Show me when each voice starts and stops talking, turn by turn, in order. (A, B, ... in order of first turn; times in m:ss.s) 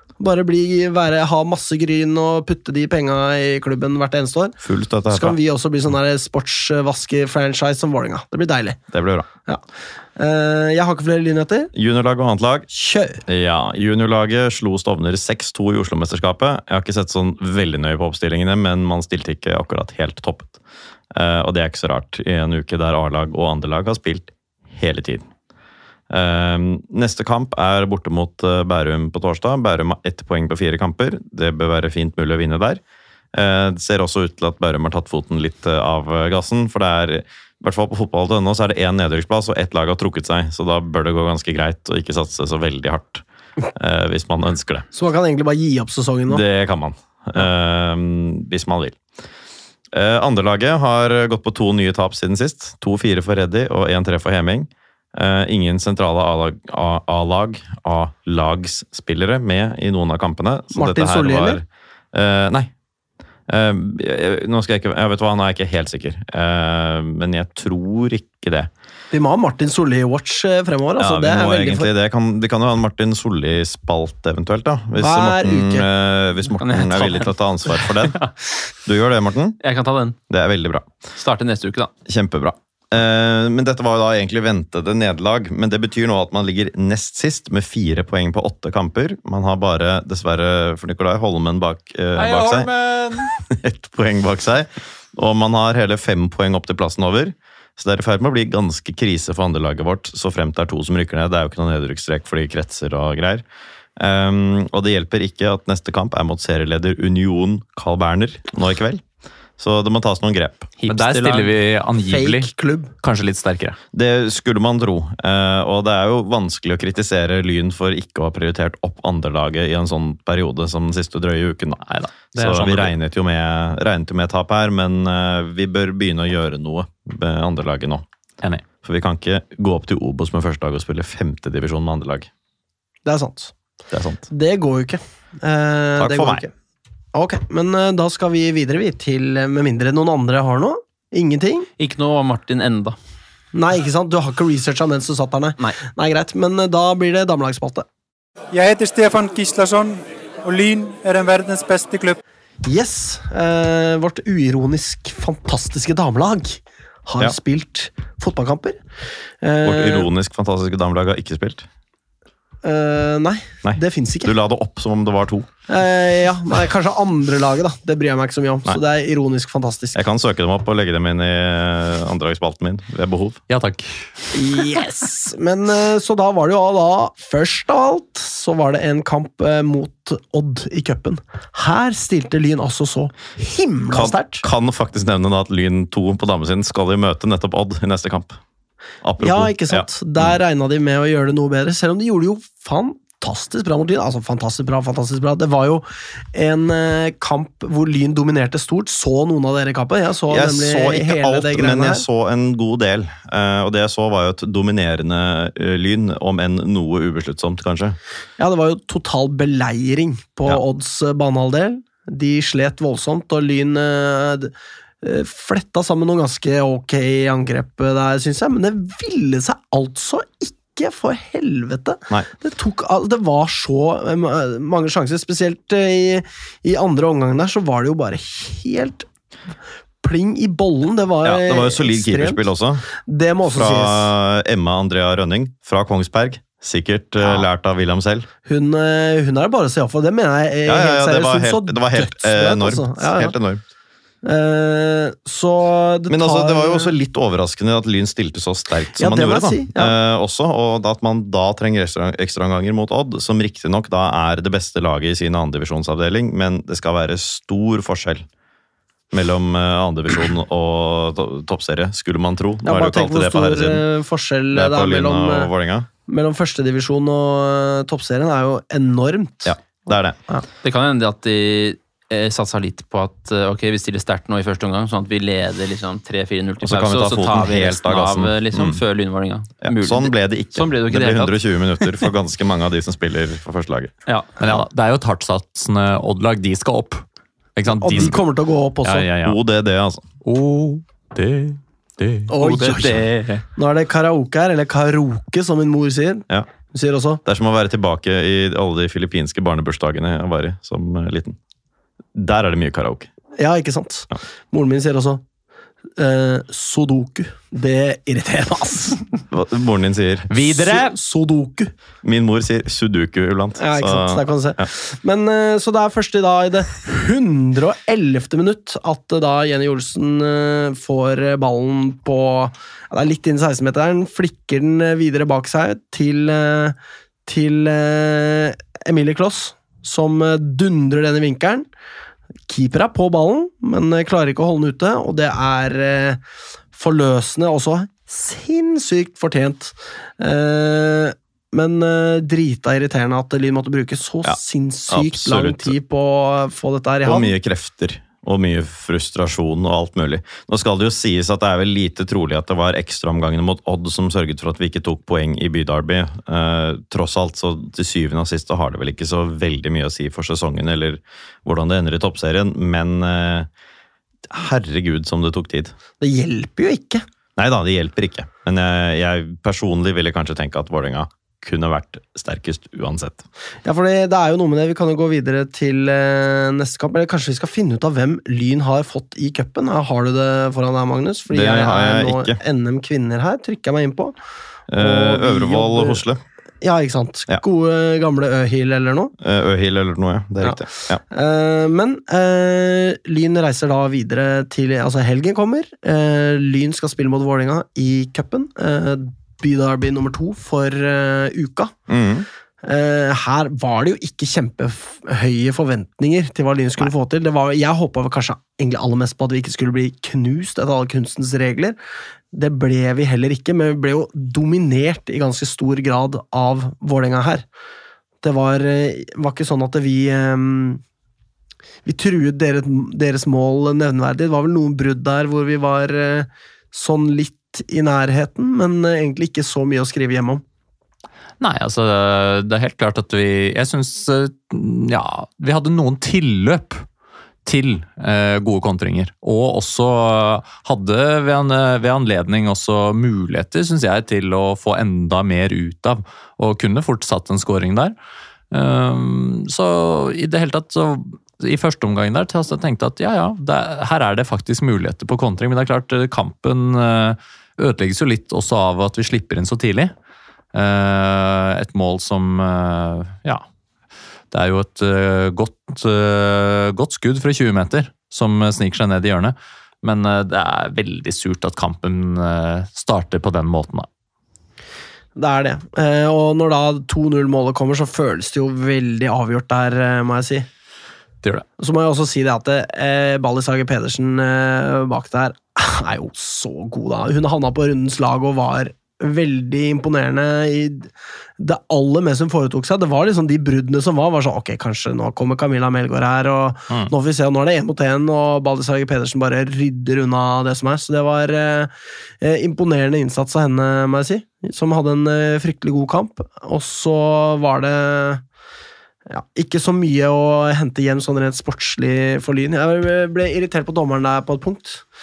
0:00.2-0:04.6 A
0:04.6-0:05.4 B
0:05.1-0:08.8 A
0:08.9-0:09.3 B
0:10.2-0:11.7 A
0:11.7-0:12.7 B
0:12.7-0:13.2 A
0:13.3-0:20.6 B
0:21.1-0:25.3 B
0:26.1-0:32.8 B
0:33.3-0:43.2 B
0:43.8-0:44.9 B
0:44.9-0:46.4 A
0:46.3-0:49.0 B
0:49.9-1:02.7 B
1:00.7-1:01.6 A
1:03.5-1:08.7 B
1:09.1-1:11.9 A
1:11.0-1:18.2 B
1:15.0-1:15.9 A
1:16.6-1:18.7 C
1:18.8-1:19.6 B
1:19.6-1:20.2 C
1:20.3-1:20.9 B
1:21.2-1:21.9 C
1:22.1-1:43.4 B
1:32.4-1:33.1 D
1:44.0-1:49.0 B
1:49.6-1:50.8 B
1:50.8-1:51.5 C
1:50.8-1:53.8 D
1:52.1-1:52.9 A
1:53.9-2:01.8 B
2:01.8-2:02.9 D
2:02.3-2:08.1 B
2:08.8-2:12.3 B
2:13.0-2:13.5 A
2:13.9-2:14.2 B
2:14.3-2:16.5 A
2:16.0-2:16.4 B
2:17.1-2:21.7 A
2:21.8-2:23.0 C
2:23.5-2:27.8 A
2:28.5-2:32.2 E
2:32.6-2:38.8 A
2:39.4-2:40.1 A
2:39.6-2:41.7 B
2:42.6-2:44.3 A
2:43.6-2:45.5 B
2:45.7-2:50.0 A
2:50.0-2:53.4 B
2:53.5-2:54.1 D
2:54.3-3:04.4 A
3:03.9-3:08.4 B
3:09.0-3:10.4 B
3:09.2-3:22.0 A
3:20.3-3:28.0 B
3:28.4-3:49.1 A
3:50.0-3:52.5 A
3:51.2-3:52.8 B
3:53.0-3:54.1 A
3:53.4-3:58.3 B
3:58.5-4:03.4 A
4:00.7-4:03.6 B
4:04.2-4:06.9 A
4:06.1-4:18.3 B
4:09.0-4:10.0 A
4:19.1-4:23.8 B
4:22.6-4:25.5 A
4:24.5-4:25.9 B
4:26.1-4:30.4 A
4:29.4-4:30.2 B
4:30.6-4:42.1 C
4:36.6-4:38.8 B
4:39.6-4:43.9 B
4:44.1-4:44.3 C
4:44.4-4:47.0 D
4:47.6-4:48.2 D
4:47.7-4:49.1 A
4:48.8-4:49.4 D
4:49.2-4:50.1 B
4:50.2-4:52.3 D
4:52.3-4:57.2 A
4:52.4-4:53.4 C
4:57.2-5:01.4 B
5:02.2-5:03.1 B
5:03.4-5:05.2 A
5:06.0-5:09.0 A
5:09.3-5:10.3 B
5:10.3-5:11.0 D
5:10.4-5:11.7 A
5:12.0-5:14.7 B
5:13.6-5:31.7 A
5:32.5-5:36.2 A
5:36.7-5:47.3 A
5:44.9-5:45.8 B
5:47.0-6:03.5 B
6:04.3-6:05.7 B
6:06.0-6:07.0 A
6:07.4-6:13.2 B
6:13.6-6:24.2 A
6:21.3-6:22.4 B
6:24.7-6:26.2 B
6:24.8-6:26.0 A
6:26.6-6:29.1 A
6:29.2-6:31.0 B
6:30.4-6:41.8 A
6:41.9-6:42.3 B
6:42.6-6:51.8 A
6:52.3-6:57.4 A
6:58.2-7:00.8 A
7:01.8-7:10.4 A
7:11.4-7:16.8 D
7:17.4-7:28.0 D
7:28.5-7:39.9 D
7:40.5-7:43.4 D
7:44.3-7:53.9 D
7:55.2-8:00.5 A
8:01.6-8:28.2 A
8:29.1-8:34.8 A